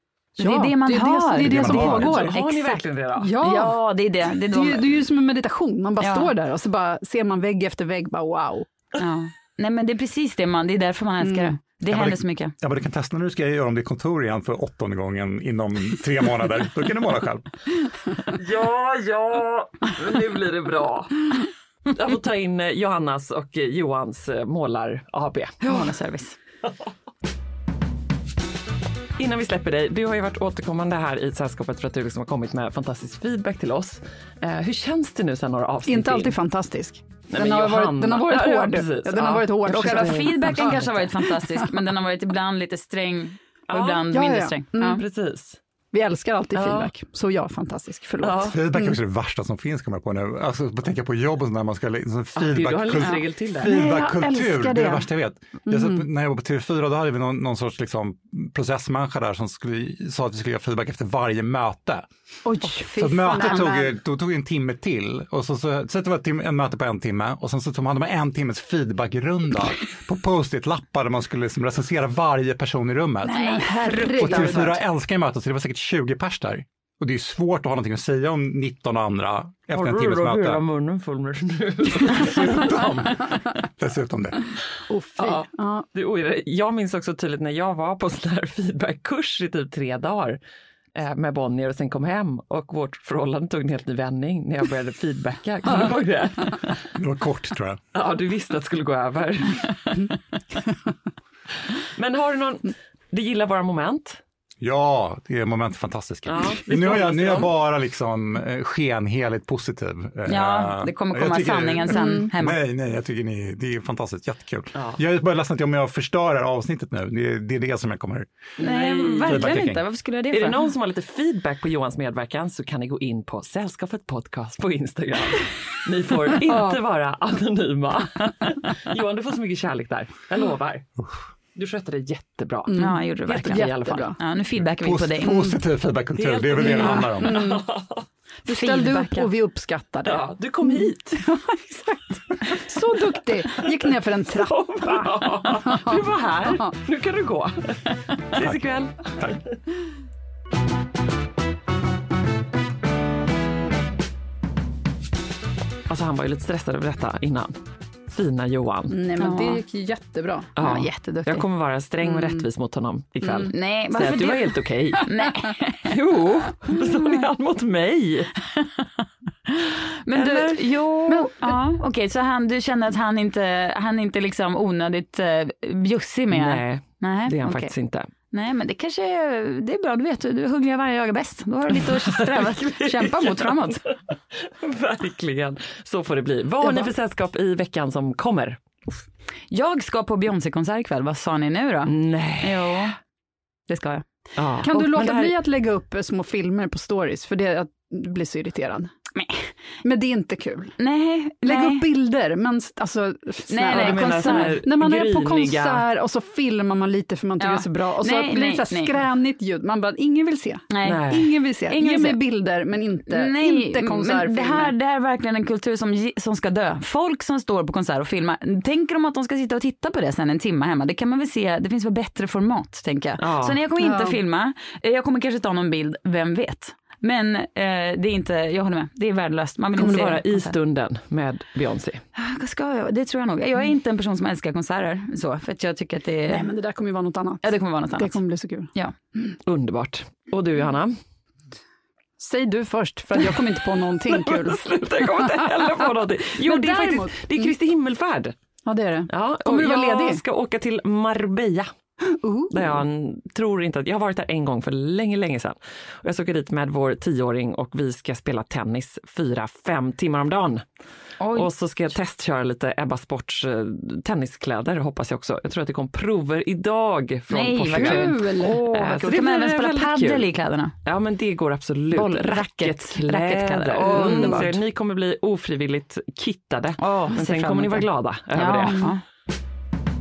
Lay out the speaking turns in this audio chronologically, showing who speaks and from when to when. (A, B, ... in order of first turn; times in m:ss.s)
0:00.4-0:08.7 A
0:00.4-0:02.0 B
0:01.4-0:02.3 C
0:01.7-0:03.3 D
0:03.4-0:04.9 B
0:06.0-0:06.3 B
0:09.0-0:12.5 B
0:11.2-0:11.6 A
0:11.8-0:17.4 C
0:18.3-0:21.2 D
0:21.9-0:25.6 D
0:25.6-0:26.4 B
0:29.2-0:36.4 D
0:35.8-0:40.8 A
0:37.3-0:41.1 D
0:39.7-0:45.0 B
0:43.7-0:44.1 D
0:44.1-0:45.0 A
0:44.8-0:45.6 D
0:45.9-0:49.0 A
0:46.5-0:46.9 D
0:48.2-0:48.6 D
0:48.5-1:02.0 C
0:52.4-0:53.8 D
0:53.0-0:55.0 A
0:55.7-0:56.0 A
1:02.4-1:03.9 A
1:02.8-1:03.7 B
1:03.0-1:20.6 C
1:13.2-1:14.8 A
1:13.3-1:14.6 B
1:19.7-1:22.7 D
1:22.0-1:24.5 C
1:24.9-1:25.8 A
1:25.2-1:30.4 D
1:30.9-1:36.8 D
1:36.9-1:37.8 C
1:37.9-1:40.1 D
1:42.0-1:44.2 D
1:44.6-1:58.3 C
1:46.2-1:47.5 D
1:50.3-1:52.6 B
1:51.9-1:52.3 A
1:58.6-1:59.6 D
1:58.6-2:00.6 B
1:59.2-1:59.8 C
2:00.3-2:10.9 D
2:06.5-2:06.8 A
2:11.5-2:12.7 D
2:12.7-2:14.2 A
2:12.8-2:15.6 B
2:13.3-2:14.1 D
2:14.6-2:17.4 C
2:16.1-2:18.0 D
2:16.6-2:17.6 A
2:18.4-2:26.7 A
2:18.5-2:19.3 B
2:20.0-2:21.2 D
2:23.6-2:27.8 D
2:28.3-2:29.4 D
2:35.9-2:37.6 D
2:38.1-2:39.0 D
2:38.9-2:40.5 A
2:39.2-2:39.6 B
2:40.6-2:45.1 D
2:40.6-2:41.4 B
2:42.0-2:42.4 A
2:43.2-2:43.5 A
2:43.5-2:45.9 B
2:45.9-2:48.3 D
2:49.5-2:57.7 B
2:50.1-2:50.6 D
2:51.1-2:51.5 A
2:56.3-2:58.1 D
2:58.3-3:03.8 B
3:01.7-3:08.6 D
3:06.6-3:06.9 A
3:09.5-3:12.9 B
3:11.8-3:12.9 D
3:13.7-3:14.0 B
3:14.4-3:15.4 D
3:14.6-3:18.9 A
3:19.1-3:19.5 B
3:19.8-3:20.8 A
3:20.8-3:21.8 B
3:21.4-3:34.7 A
3:23.5-3:24.6 B
3:23.6-3:25.9 D
3:27.4-3:29.0 B
3:30.7-3:31.2 B
3:30.8-3:31.3 D
3:31.7-3:32.2 B
3:33.1-3:50.5 B
3:43.2-3:43.6 D
3:43.8-3:44.2 A
3:49.8-3:52.0 D
3:52.1-3:56.5 B
3:56.3-3:58.7 A
3:57.4-3:58.2 B
3:59.4-4:01.0 D
4:02.2-4:07.5 A
4:03.9-4:08.3 D
4:08.6-4:10.2 A
4:09.1-4:11.7 D
4:12.0-4:12.8 A
4:12.5-4:20.6 D
4:21.2-4:21.5 B
4:21.3-4:30.3 D
4:27.3-4:30.7 B
4:27.7-4:28.6 A
4:30.8-4:38.8 D
4:31.9-4:34.6 B
4:33.8-4:34.5 A
4:36.8-4:39.0 B